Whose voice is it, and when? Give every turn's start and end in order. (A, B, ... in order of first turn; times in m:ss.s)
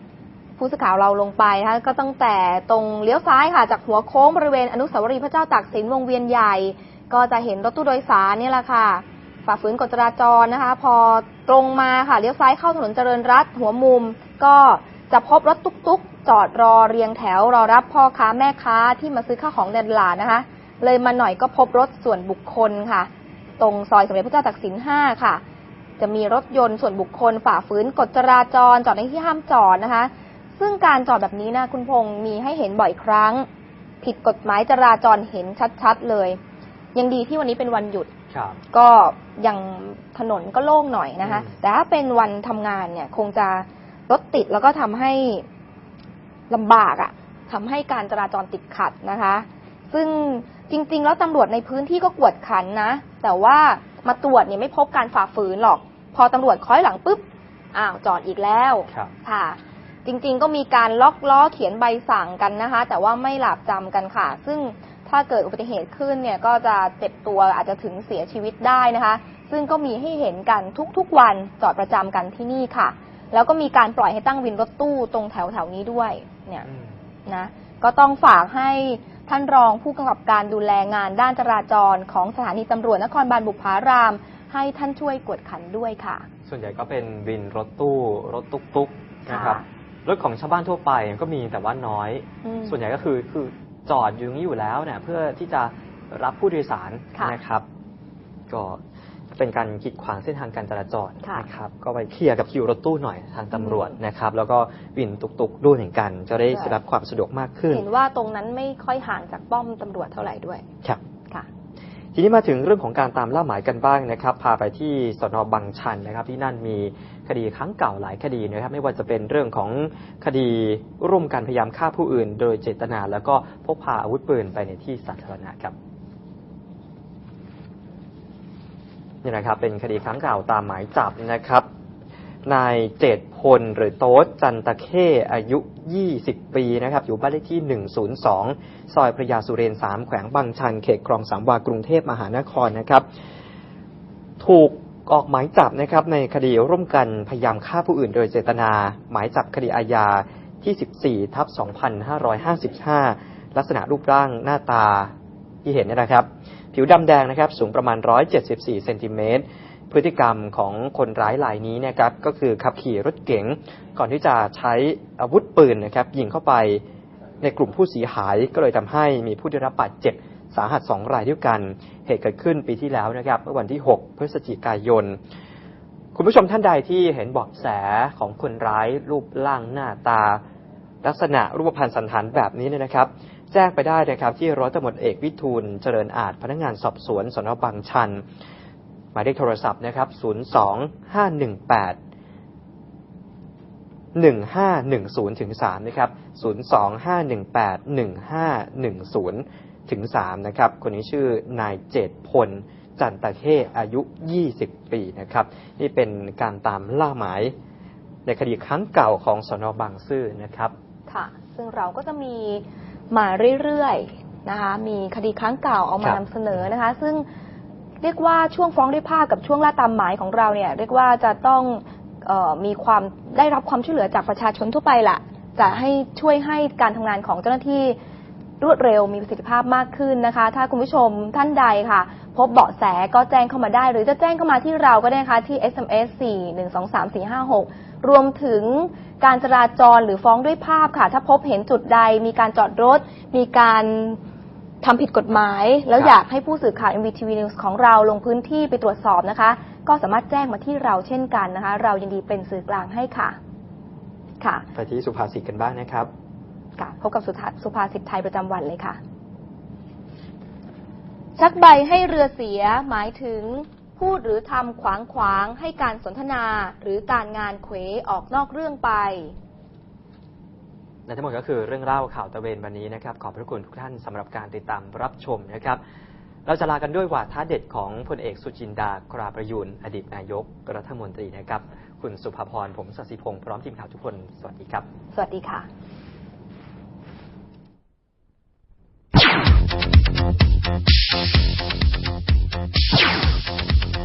0:00.6-0:25.4 A
0:26.0-0:33.5 A
0:34.0-0:36.4 A
0:37.0-0:38.1 A
0:38.3-0:38.6 B
0:38.7-0:45.5 A
0:41.2-0:41.6 B
0:46.5-1:16.7 A
1:16.7-1:17.0 B
1:17.3-1:26.3 A
1:26.5-1:37.6 B
1:29.3-1:29.6 A
1:32.4-1:32.8 A
1:38.5-1:38.8 B
1:39.3-1:47.8 B
1:46.5-1:46.8 A
1:47.7-1:50.6 A
1:52.2-2:05.8 B
2:09.2-2:11.6 B
2:12.5-2:23.0 B
2:24.4-2:35.1 B
2:35.6-2:46.8 B
2:47.4-2:55.2 B
2:56.2-3:00.4 B
3:01.0-3:08.2 B
3:09.1-3:12.0 B
3:14.2-3:27.6 B
3:28.3-3:30.7 B
3:31.1-3:37.2 A
3:38.0-3:48.0 A
3:48.6-4:04.2 A
4:04.8-4:13.4 A
4:14.4-4:14.7 A
4:14.8-4:16.1 B
4:16.8-4:19.0 A
4:21.4-4:29.4 A
4:31.1-4:35.8 B
4:36.5-4:44.9 B
4:45.1-4:45.7 A